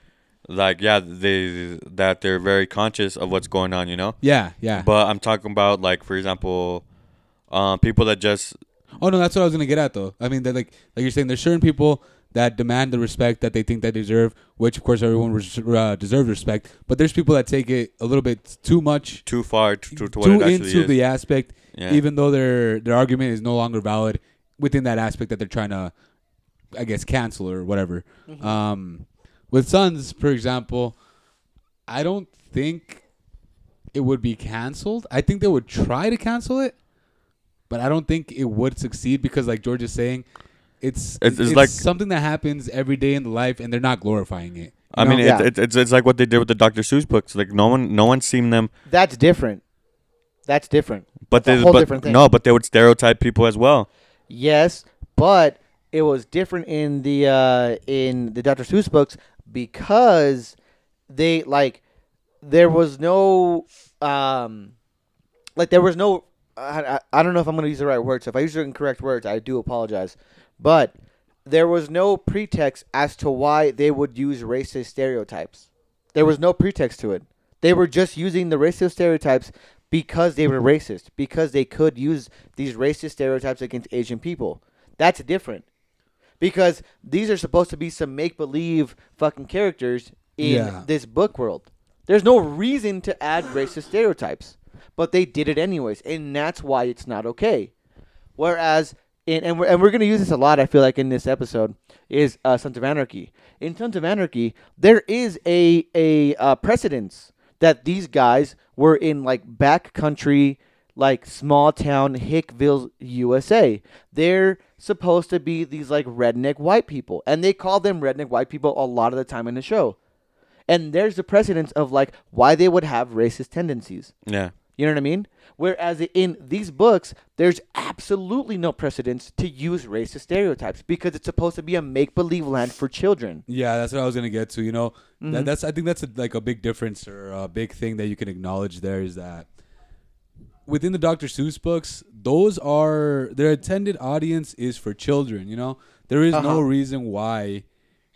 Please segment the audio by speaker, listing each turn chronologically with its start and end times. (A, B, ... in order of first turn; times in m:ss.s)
0:00.5-0:04.2 A
0:04.2-0:04.9 B
0:04.7-0:06.8 A
0:07.5-0:08.6 A
0:09.0-0:19.2 B
0:19.2-0:20.9 A
0:19.9-0:25.9 B
0:21.7-0:22.0 A
0:26.7-0:31.0 B
0:28.3-0:28.5 C
0:31.9-0:33.0 B
0:33.9-0:36.7 B
0:37.7-0:40.2 B
0:40.8-0:45.3 B
0:41.2-0:41.8 A
0:44.9-0:48.7 A
0:45.2-0:45.5 C
0:48.9-0:49.6 C
0:50.4-0:52.2 C
0:51.3-0:53.9 A
0:54.3-1:00.6 C
1:01.1-1:01.8 C
1:02.4-1:04.7 C
1:05.6-1:10.9 C
1:11.4-1:25.6 C
1:26.4-1:37.7 C
1:30.4-1:30.9 B
1:38.4-2:00.0 C
2:00.7-2:04.1 C
2:04.2-2:04.5 A
2:04.8-2:13.4 C
2:13.5-2:19.5 B
2:15.2-2:15.5 C
2:20.6-2:27.6 B
2:26.3-2:26.6 C